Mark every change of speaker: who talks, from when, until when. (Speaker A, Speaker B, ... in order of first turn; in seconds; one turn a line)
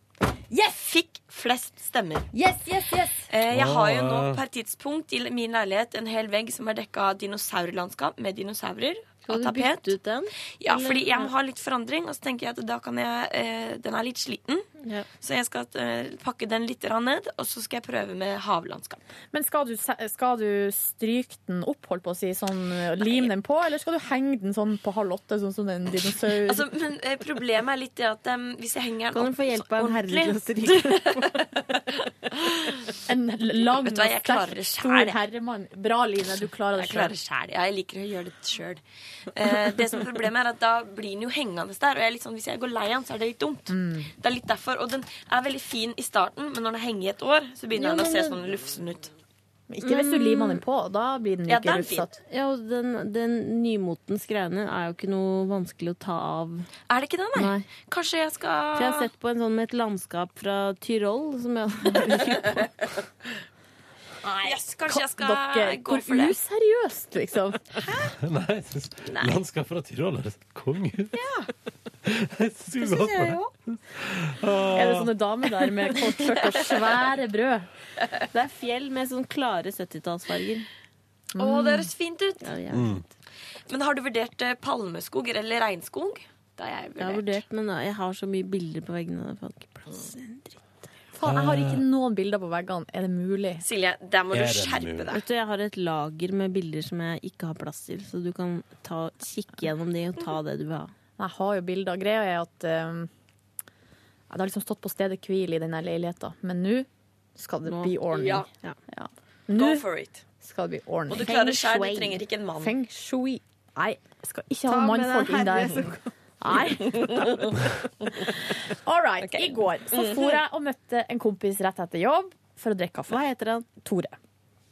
Speaker A: 0.5-0.8
Speaker B: 0.7-2.3
Speaker A: 2.3-3.3
Speaker B: 3.3-9.9
Speaker C: 3.5-4.4
Speaker D: 9.2-11.3
Speaker B: 10.6-14.7
Speaker D: 14.8-15.1
Speaker B: 15.2-19.0
Speaker A: 19.3-26.6
Speaker B: 26.4-31.7
Speaker D: 29.1-31.3
Speaker A: 33.0-37.1
Speaker B: 33.7-35.2
Speaker B: 36.7-38.8
Speaker B: 39.3-49.1
Speaker A: 43.7-44.1
Speaker D: 47.8-48.4
Speaker A: 49.7-52.1
Speaker D: 49.8-50.6
Speaker B: 51.5-52.1
Speaker D: 52.2-56.7
Speaker B: 56.9-59.1
Speaker D: 57.4-57.8
Speaker D: 58.8-62.7
Speaker A: 64.2-67.7
Speaker B: 64.4-66.3
Speaker B: 67.8-68.1
Speaker C: 68.2-71.1
Speaker B: 69.1-69.4
Speaker B: 71.1-71.5
Speaker C: 72.0-73.4
Speaker B: 72.8-73.5
Speaker C: 73.9-75.1
Speaker A: 74.7-77.7
Speaker D: 78.3-80.7
Speaker A: 81.3-81.9
Speaker B: 81.4-82.5
Speaker D: 82.4-83.0
Speaker C: 82.7-83.0
Speaker B: 83.7-87.4
Speaker D: 87.0-90.6
Speaker A: 91.1-93.6
Speaker C: 91.2-91.8
Speaker B: 93.6-95.2
Speaker C: 94.3-95.1
Speaker D: 95.1-100.9
Speaker A: 101.2-103.1
Speaker A: 104.3-109.8
Speaker D: 107.6-108.8
Speaker B: 108.1-108.5
Speaker B: 109.5-110.2
Speaker A: 110.4-111.5
Speaker B: 111.1-112.7
Speaker D: 111.2-112.2
Speaker A: 112.6-117.3
Speaker D: 114.7-116.0
Speaker B: 116.9-117.5
Speaker A: 118.8-123.2
Speaker B: 119.2-120.4
Speaker D: 123.1-123.7
Speaker A: 123.7-124.1